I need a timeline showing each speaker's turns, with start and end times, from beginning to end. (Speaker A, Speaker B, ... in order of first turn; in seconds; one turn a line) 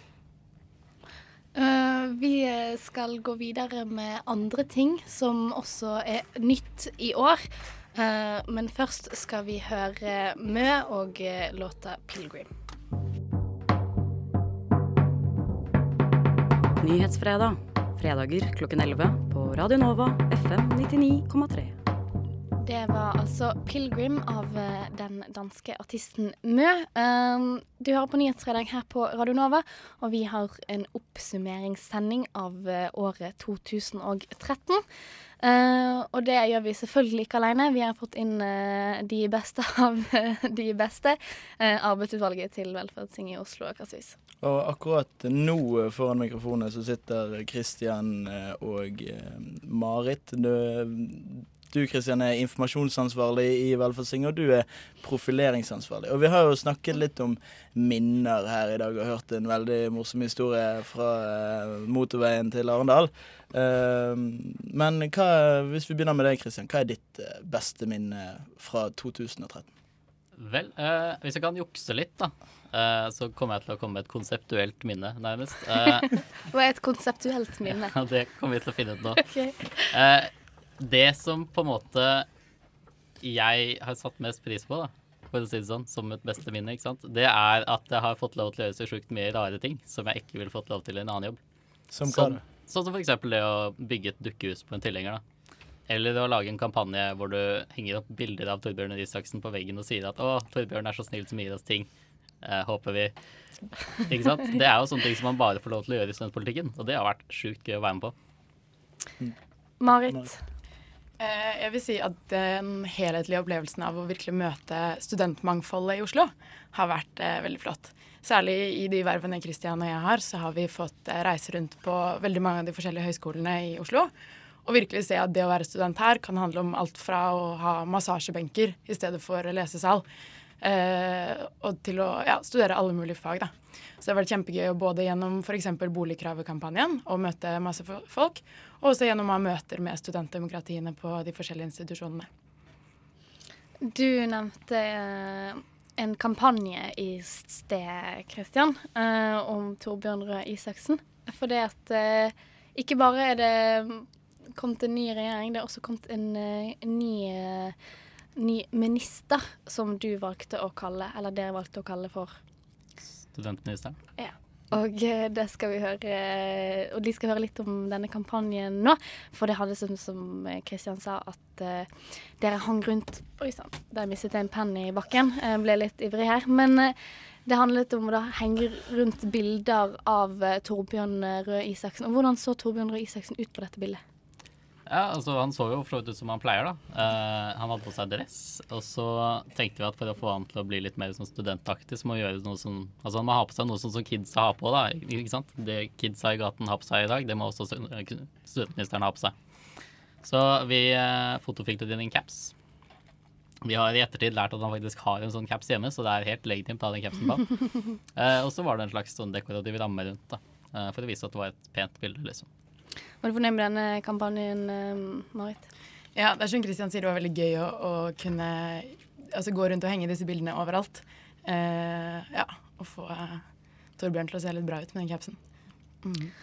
Speaker A: 1.5-12.5
Speaker B: 16.8-21.7
Speaker A: 22.6-34.8
Speaker A: 35.4-44.1
Speaker C: 44.4-69.7
Speaker D: 70.4-76.1
Speaker A: 76.5-77.9
Speaker D: 77.9-79.2
Speaker A: 79.2-79.7
Speaker D: 79.9-82.2
Speaker D: 83.2-91.4
Speaker C: 91.9-92.4
Speaker D: 92.1-95.2
Speaker D: 95.9-101.9
Speaker D: 102.4-103.1
Speaker D: 104.1-108.1
Speaker A: 109.8-110.4
Speaker E: 111.2-124.1
Speaker E: 124.6-130.0
Speaker E: 130.6-142.3
Speaker A: 143.8-157.7
Speaker A: 158.4-162.3
Speaker D: 163.3-164.0
Speaker A: 164.2-176.9
Speaker A: 177.4-184.0
Speaker D: 184.9-199.3
Speaker D: 200.2-202.5
Speaker D: 203.6-207.5
Speaker D: 208.2-212.4
Speaker A: 213.2-215.7
Speaker E: 216.1-223.4
Speaker E: 224.0-225.4
Speaker E: 226.0-226.3